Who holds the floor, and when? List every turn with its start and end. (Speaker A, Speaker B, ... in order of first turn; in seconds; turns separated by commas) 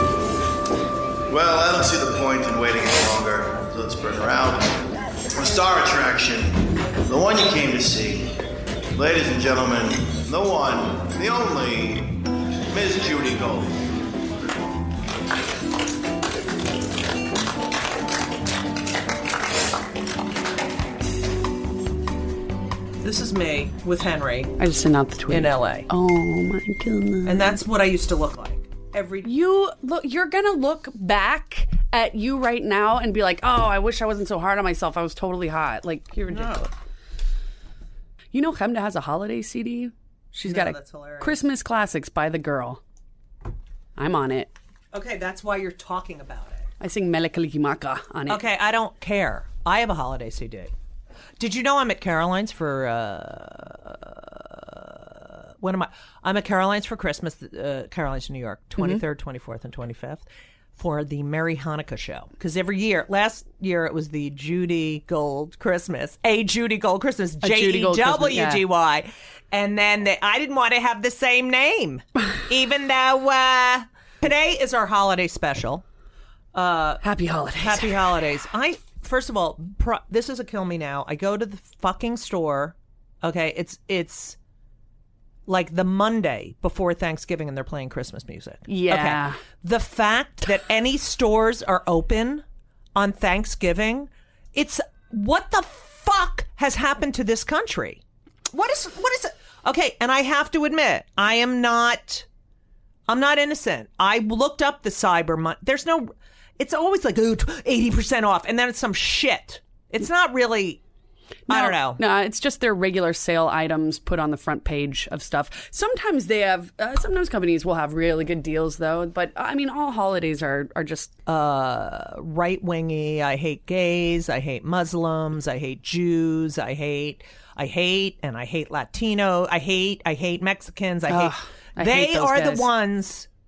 Speaker A: 1.3-8.3, Speaker A: 8.9-13.8, Speaker B: 23.0-24.5, Speaker C: 24.6-27.6, Speaker B: 25.3-25.9, Speaker B: 27.2-29.3, Speaker C: 29.2-36.7, Speaker B: 36.3-36.7, Speaker C: 38.3-42.8, Speaker B: 40.4-41.4, Speaker C: 44.0-44.5, Speaker B: 44.9-46.6, Speaker C: 46.8-48.4, Speaker B: 48.3-50.7, Speaker B: 51.4-60.2, Speaker B: 60.8-75.8, Speaker C: 67.4-68.6, Speaker B: 76.5-77.0, Speaker C: 77.0-78.0, Speaker B: 77.5-84.4, Speaker B: 85.5-92.4, Speaker C: 88.7-89.4, Speaker B: 93.0-102.3, Speaker B: 103.1-110.8, Speaker B: 111.5-112.0, Speaker C: 111.5-121.1, Speaker B: 121.2-133.3, Speaker C: 131.1-132.7